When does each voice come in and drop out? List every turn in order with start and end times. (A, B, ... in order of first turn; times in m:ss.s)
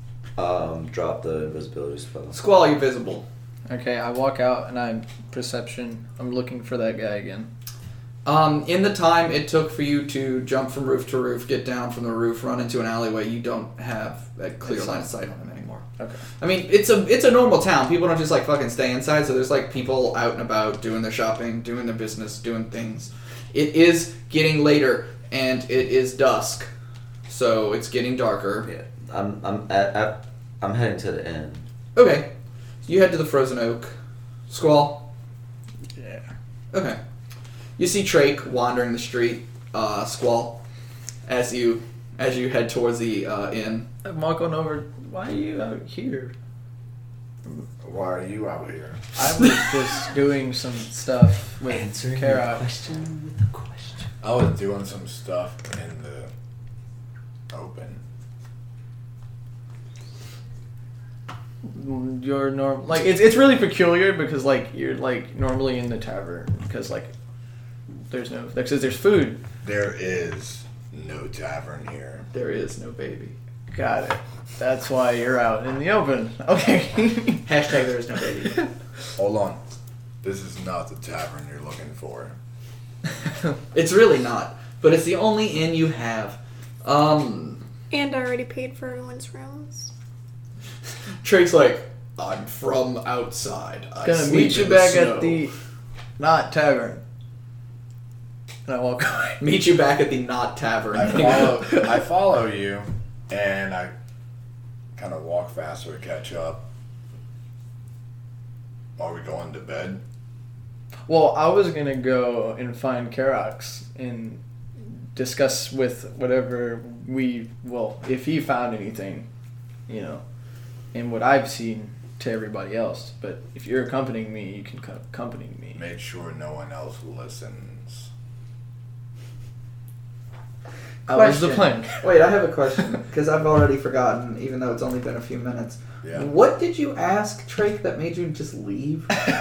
0:00.4-0:02.4 A
0:02.3-0:03.3 B
0:03.7-0:07.5 C
0:08.2-0:15.8 B
0:14.6-0:15.1 C
0:16.4-0:26.7 B
0:27.3-0:28.7 B
0:28.6-0:31.6 A
0:32.0-0:32.3 B
0:32.8-0:33.9 B
0:34.5-0:35.1 B
0:36.0-0:36.2 C
0:36.7-0:37.0 B
0:37.8-0:40.6 B
0:41.3-0:43.9 B
0:44.0-0:46.3 C
0:47.8-0:49.0 D
0:49.2-0:52.6 C
0:51.7-0:54.1 A
0:54.2-0:56.3 D
0:57.5-0:58.0 D
1:01.6-1:07.1 C
1:08.1-1:09.4 C
1:09.6-1:12.3 D
1:12.3-1:13.4 B
1:13.7-1:17.5 C
1:17.5-1:18.7 B
1:19.2-1:19.6 D
1:20.2-1:22.4 D
1:23.7-1:27.6 B
1:27.9-1:29.9 E
1:31.2-1:35.4 B
1:34.0-1:35.5 C
1:36.2-1:37.0 C
1:38.7-1:39.4 C
1:39.4-1:41.7 B
1:40.9-1:43.9 D
1:45.0-1:46.6 D
1:49.0-1:50.0 D
1:51.1-1:54.4 C
1:55.1-1:59.3 C
1:59.9-2:00.2 C
2:00.9-2:05.8 C
2:05.8-2:08.1 D
2:11.1-2:12.0 C
2:11.1-2:19.2 B
2:16.0-2:16.3 D